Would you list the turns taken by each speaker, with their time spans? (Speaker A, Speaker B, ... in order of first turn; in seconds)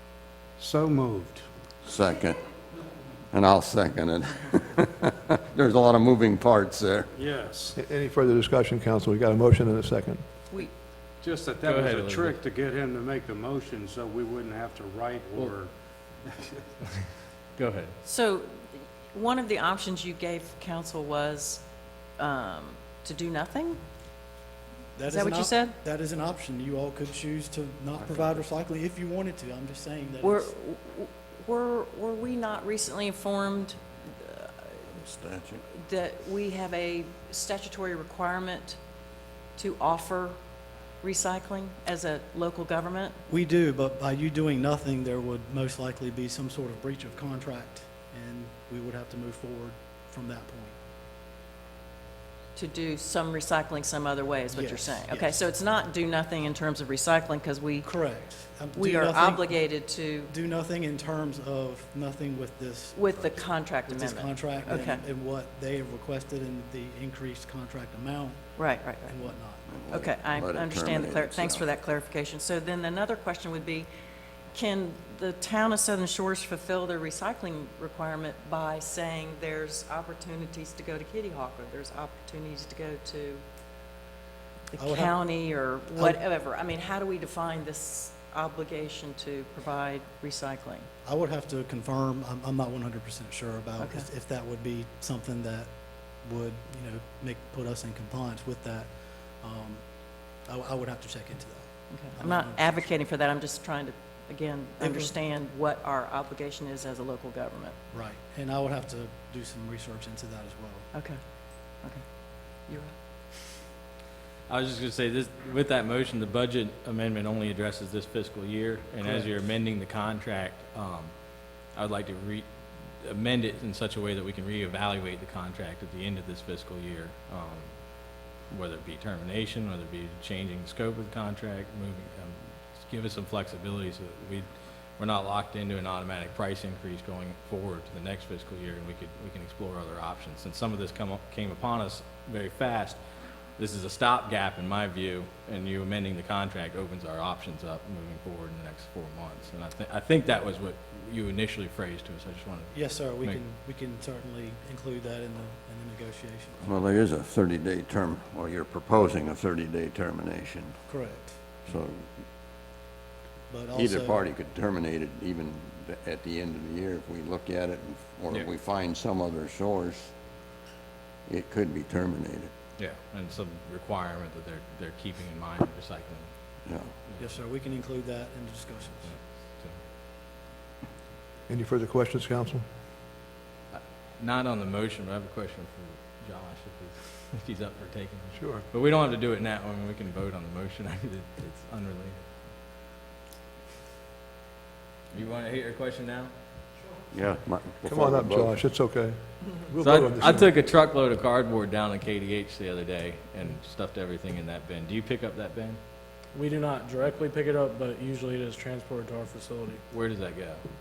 Speaker A: 0.6-1.4, 7.2-7.8, 11.2-16.6
Speaker B: 1.9-2.4, 3.3-7.1, 34.9-35.6, 69.7-71.7, 156.6-160.8, 161.7-162.1, 163.7-170.1, 171.3-172.5, 197.1-198.6
Speaker C: 7.8-10.2, 181.5-182.7, 188.4-188.6, 197.8-200.5
Speaker D: 11.6-12.4, 17.6-18.0, 114.5-121.1, 121.7-122.5, 123.0-127.7, 128.5-143.0, 143.6-153.4, 172.8-176.3, 183.7-192.3, 195.1-196.3, 199.8-205.8, 209.9-210.6
Speaker E: 18.0-21.7, 22.2-23.8, 25.1-25.8, 30.2-34.9, 35.7-38.8, 39.6-40.4, 41.0-43.2, 52.5-57.9, 58.8-60.3, 62.9-65.0, 68.6-69.2, 69.9-73.9, 74.5-83.4, 84.7-90.9, 93.8-94.1, 101.9-107.8, 110.9-111.2, 112.7-112.9
Speaker F: 25.0-30.5, 43.3-50.8, 54.5-55.4, 57.8-59.6, 60.3-69.7, 84.8-85.2, 91.0-99.8, 100.5-102.9, 104.8-105.1, 107.9-110.9, 119.0-119.3, 152.7-156.6, 160.9-161.4, 163.5-164.2, 177.2-179.1
Speaker G: 206.3-209.8